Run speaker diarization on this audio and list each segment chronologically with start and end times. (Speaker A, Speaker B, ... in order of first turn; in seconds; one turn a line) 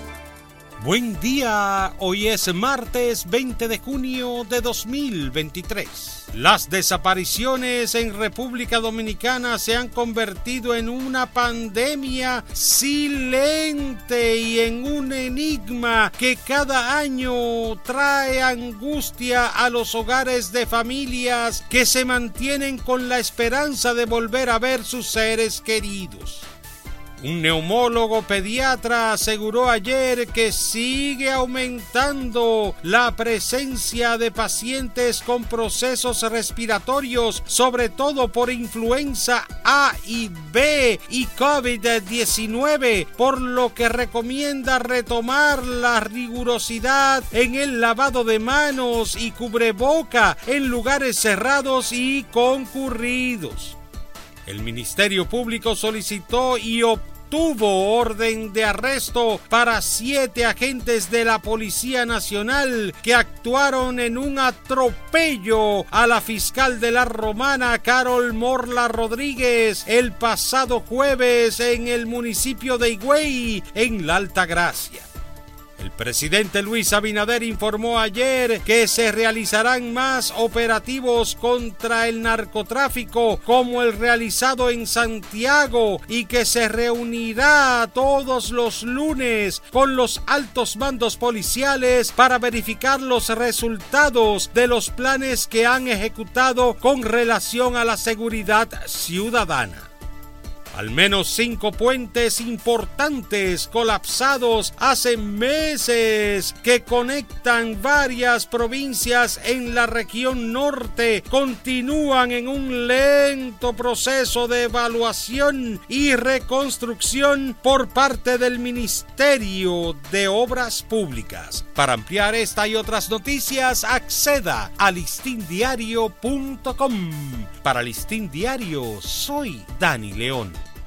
Speaker A: 0.8-26.5
Speaker A: 27.2-53.8
Speaker A: 54.5-75.1
Speaker A: 75.8-99.9
Speaker A: 100.7-130.6